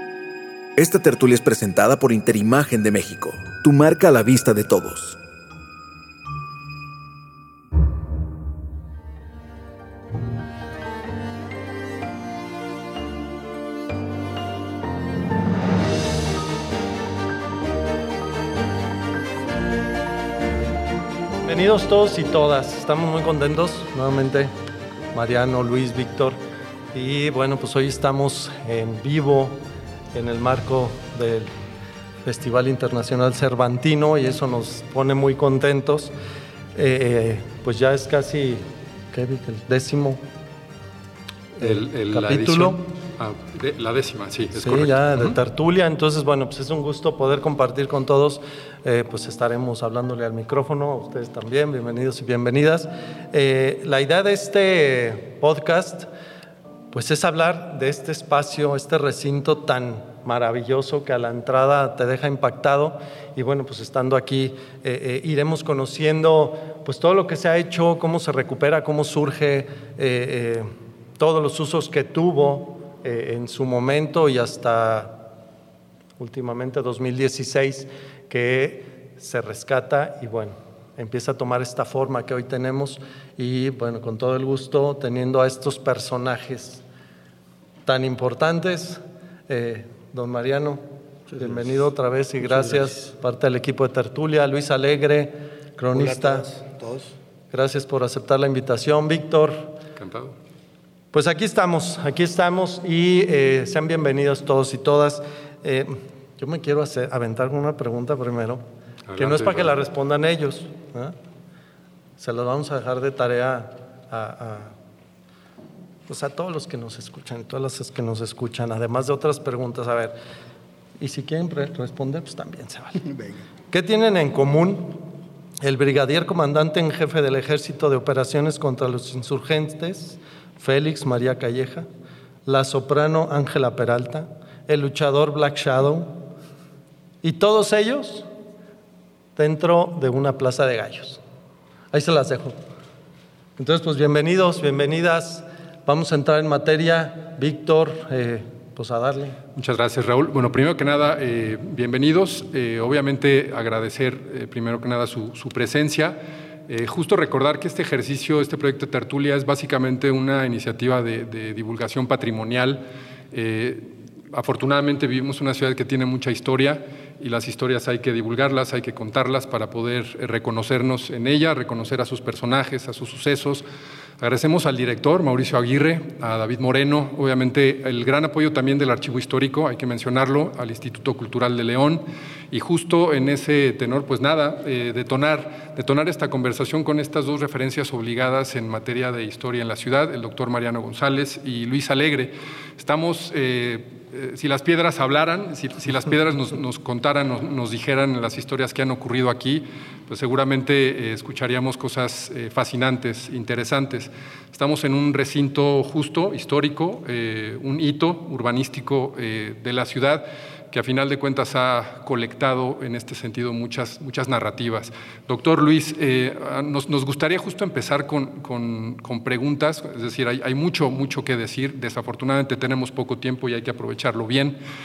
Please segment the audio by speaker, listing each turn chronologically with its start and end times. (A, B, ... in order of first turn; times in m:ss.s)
0:00.8-0:05.2 A
0:21.4-0:24.5 B
0:25.1-0:26.4 B
0:26.9-0:29.6 B
0:30.1-0:31.5 B
0:32.2-0:36.1 B
0:36.7-0:40.2 B
0:41.6-0:42.8 B
0:41.6-0:45.3 C
0:44.5-0:56.1 B
0:56.9-1:15.2 B
1:16.2-1:26.8 B
1:27.8-1:30.8 B
1:31.3-1:31.8 D
1:31.4-1:36.5 B
1:32.4-1:33.1 D
1:35.9-1:37.1 D
1:37.5-1:39.7 B
1:40.0-1:40.3 C
1:41.1-1:48.6 B
1:49.1-1:49.7 C
1:49.2-1:51.1 B
1:52.2-1:54.7 B
1:56.1-2:00.2 B
2:01.0-2:03.0 B
2:03.7-2:05.0 B
2:05.6-2:11.9 B
2:12.4-2:16.2 B
2:17.2-2:18.3 B
2:19.4-2:21.2 B
2:21.9-2:22.6 B
2:23.6-2:29.4 B
2:29.6-2:53.6 C
2:54.2-3:44.6 C